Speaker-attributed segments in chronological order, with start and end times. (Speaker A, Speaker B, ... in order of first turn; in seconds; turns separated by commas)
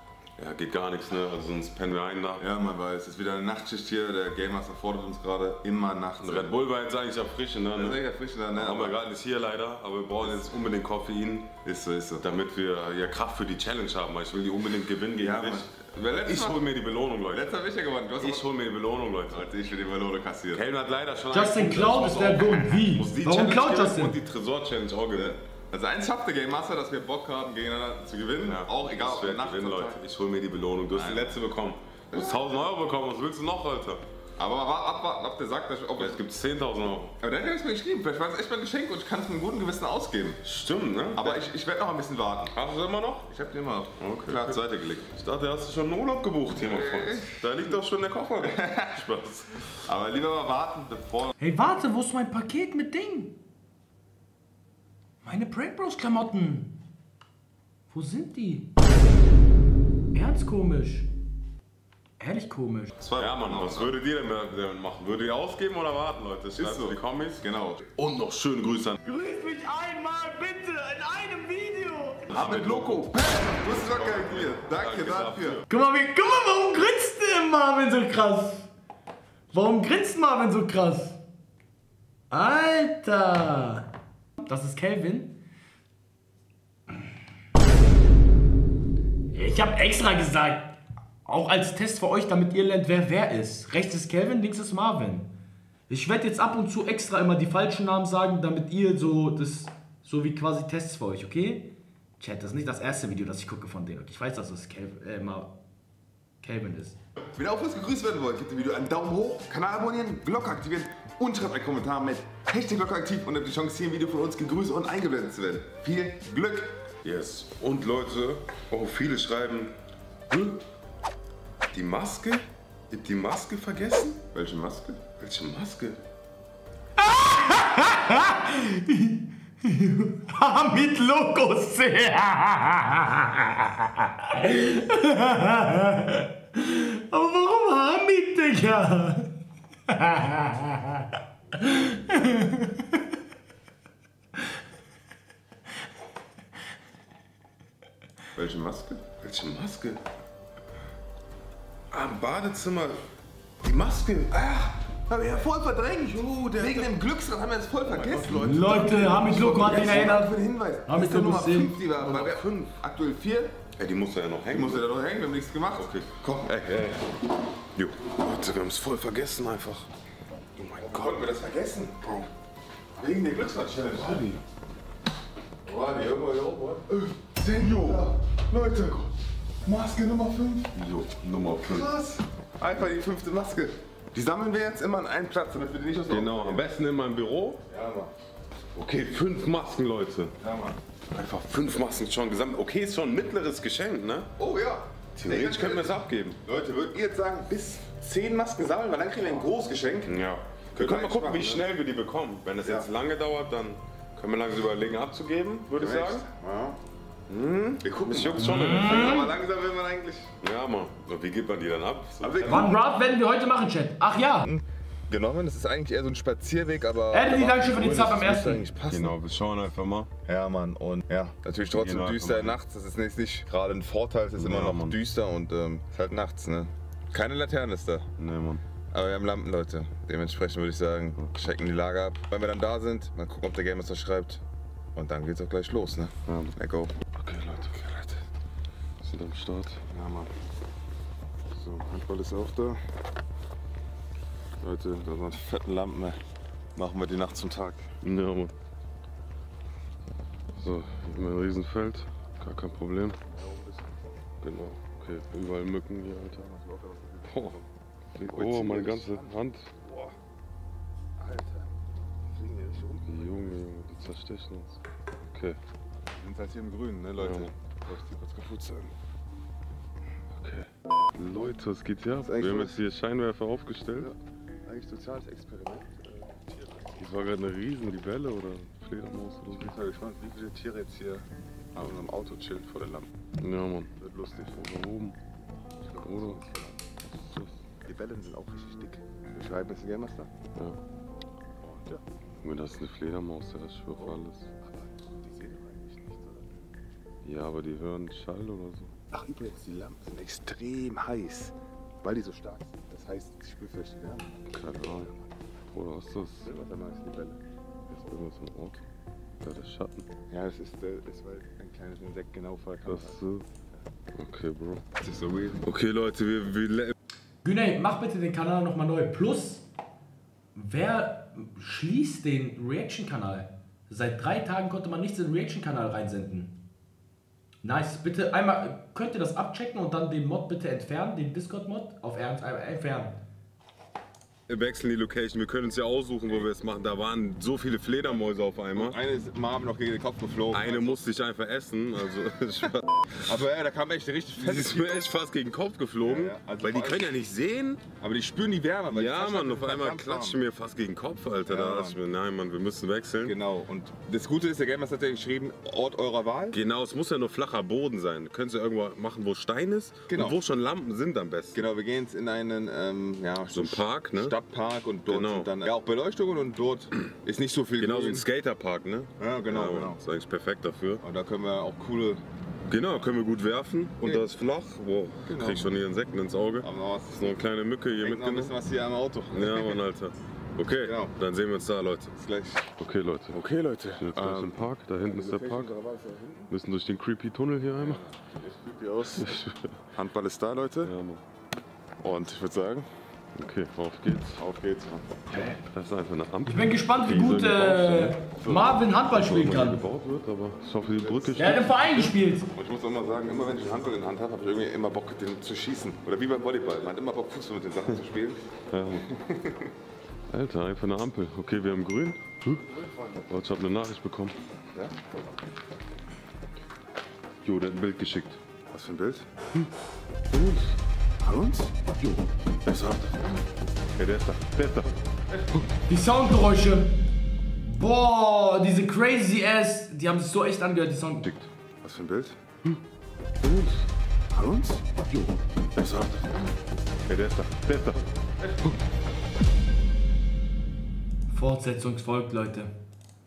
Speaker A: 0.4-2.5, Speaker B: 2.4-6.5, Speaker A: 6.2-11.5, Speaker B: 7.8-9.0, Speaker B: 11.6-12.2, Speaker A: 12.2-17.5, Speaker B: 15.2-16.6, Speaker B: 17.3-18.5, Speaker A: 18.2-19.5, Speaker B: 19.3-20.6, Speaker A: 20.5-25.4, Speaker C: 21.3-24.2, Speaker B: 25.1-30.0, Speaker A: 28.4-34.0, Speaker B: 30.9-31.4, Speaker B: 32.1-32.5, Speaker B: 34.4-36.2, Speaker A: 36.0-37.2, Speaker B: 37.2-40.4, Speaker A: 40.4-41.4, Speaker B: 41.1-42.6, Speaker A: 42.5-43.3, Speaker B: 43.3-45.1, Speaker A: 44.0-49.7, Speaker B: 46.6-47.8, Speaker B: 48.4-49.1, Speaker B: 49.9-51.3, Speaker C: 51.4-53.4, Speaker C: 55.2-56.7, Speaker C: 57.9-58.7, Speaker C: 60.1-61.1, Speaker C: 62.2-62.9, Speaker B: 63.0-63.9, Speaker A: 63.0-69.0, Speaker B: 66.6-67.8, Speaker C: 69.0-72.3, Speaker A: 72.3-75.7, Speaker B: 72.3-75.6, Speaker C: 75.7-78.7, Speaker C: 79.5-81.2, Speaker C: 82.3-83.9, Speaker C: 84.4-85.4, Speaker C: 89.3-95.3, Speaker C: 95.9-105.5, Speaker C: 106.4-107.0, Speaker B: 107.3-116.8, Speaker A: 117.0-119.8, Speaker A: 120.3-120.6, Speaker A: 121.7-124.2, Speaker B: 124.3-125.0, Speaker A: 125.2-126.0, Speaker C: 127.0-139.3, Speaker C: 139.9-143.0, Speaker B: 148.3-149.1, Speaker A: 149.2-150.0, Speaker A: 151.9-153.0, Speaker A: 153.6-154.5, Speaker B: 154.3-163.6, Speaker A: 156.2-156.9, Speaker A: 158.0-158.3, Speaker C: 158.3-161.8, Speaker A: 159.4-159.9, Speaker A: 161.9-162.7, Speaker A: 163.8-164.9, Speaker B: 164.5-166.8, Speaker A: 165.8-167.0, Speaker A: 167.8-169.9, Speaker A: 170.6-171.2, Speaker B: 170.8-172.1, Speaker A: 172.0-172.3, Speaker B: 173.0-174.4, Speaker A: 174.0-174.4, Speaker B: 175.7-179.1, Speaker A: 177.5-178.1, Speaker B: 179.7-180.8, Speaker A: 180.8-181.9, Speaker B: 181.4-186.7, Speaker A: 186.1-187.6, Speaker B: 187.7-188.1, Speaker A: 188.8-190.3, Speaker B: 190.4-190.8, Speaker A: 191.1-194.3, Speaker B: 194.4-200.2, Speaker A: 195.2-196.4, Speaker A: 200.1-206.3, Speaker B: 200.7-201.7, Speaker B: 202.6-202.9, Speaker B: 205.8-206.8, Speaker A: 207.3-209.3, Speaker B: 207.8-210.3, Speaker C: 208.4-209.3, Speaker A: 210.4-212.7, Speaker B: 212.2-212.8, Speaker C: 212.4-214.5, Speaker B: 214.4-219.2, Speaker C: 217.1-218.6, Speaker A: 218.8-220.1, Speaker B: 220.3-228.1, Speaker A: 221.7-222.6, Speaker A: 224.4-225.0, Speaker A: 228.2-228.6, Speaker B: 228.9-234.4, Speaker B: 234.9-236.9, Speaker A: 236.3-236.5, Speaker A: 237.2-238.2, Speaker A: 239.0-239.8, Speaker B: 239.9-240.3, Speaker B: 241.5-242.8, Speaker B: 244.6-246.2, Speaker B: 246.8-247.9, Speaker A: 248.0-248.5, Speaker A: 250.6-253.2, Speaker B: 253.2-254.0, Speaker A: 254.4-256.4, Speaker B: 256.3-260.2, Speaker A: 257.3-257.6, Speaker A: 258.1-259.7, Speaker B: 261.2-263.5, Speaker A: 263.1-265.6, Speaker B: 266.1-268.9, Speaker A: 267.2-267.5, Speaker A: 270.3-274.1, Speaker B: 272.2-272.8, Speaker B: 274.0-277.3, Speaker A: 277.0-279.7, Speaker B: 279.5-283.1, Speaker A: 283.4-283.9, Speaker B: 284.0-284.6, Speaker A: 284.6-285.2, Speaker B: 285.8-290.3, Speaker A: 286.0-286.4, Speaker B: 291.6-292.0, Speaker A: 292.4-294.5, Speaker B: 294.0-296.6, Speaker A: 297.2-298.9, Speaker B: 299.1-305.3, Speaker A: 304.5-305.1, Speaker A: 305.7-306.5, Speaker B: 306.4-307.4, Speaker A: 307.9-308.8, Speaker A: 309.4-310.1, Speaker B: 310.3-313.2, Speaker A: 312.9-313.4, Speaker A: 314.1-314.9, Speaker B: 315.0-315.6, Speaker A: 315.6-316.9, Speaker C: 317.4-319.7, Speaker C: 320.6-326.6, Speaker C: 327.6-333.2, Speaker A: 334.5-339.0, Speaker B: 338.7-341.1, Speaker A: 340.5-343.2, Speaker B: 343.2-345.1, Speaker A: 344.4-347.8, Speaker B: 346.0-347.1, Speaker B: 348.0-350.4, Speaker A: 348.9-353.4, Speaker B: 351.5-352.0, Speaker B: 353.2-356.6, Speaker A: 356.5-361.6, Speaker B: 360.1-360.4, Speaker B: 361.5-368.3, Speaker A: 363.5-364.4, Speaker A: 365.1-365.5, Speaker A: 367.8-371.0, Speaker B: 369.2-370.0, Speaker B: 371.0-372.2, Speaker A: 372.7-378.6, Speaker B: 374.0-374.2, Speaker B: 375.2-375.7, Speaker B: 376.6-377.4, Speaker B: 378.0-379.8, Speaker A: 379.3-382.1, Speaker B: 380.8-381.1, Speaker B: 382.1-382.7, Speaker A: 382.8-383.4, Speaker B: 383.3-386.5, Speaker A: 384.0-385.7, Speaker A: 386.5-388.1, Speaker B: 387.8-389.4, Speaker A: 389.1-389.8, Speaker B: 389.9-390.9, Speaker A: 390.8-391.2, Speaker B: 392.0-392.9, Speaker A: 393.4-394.4, Speaker B: 394.4-395.2, Speaker A: 395.3-401.9, Speaker C: 396.5-399.8, Speaker B: 400.8-408.5, Speaker C: 401.4-402.5, Speaker A: 408.7-409.1, Speaker B: 409.0-409.7, Speaker A: 410.3-412.7, Speaker B: 412.7-413.2, Speaker A: 413.3-414.4, Speaker A: 417.4-418.4, Speaker B: 418.7-419.3, Speaker A: 420.3-420.8, Speaker B: 421.2-422.2, Speaker A: 422.6-423.2, Speaker A: 424.0-424.9, Speaker C: 425.9-427.0, Speaker C: 427.6-431.3, Speaker B: 431.8-432.4, Speaker A: 433.4-433.9, Speaker B: 434.3-435.4, Speaker A: 435.8-436.3, Speaker A: 437.1-438.0, Speaker C: 441.3-442.7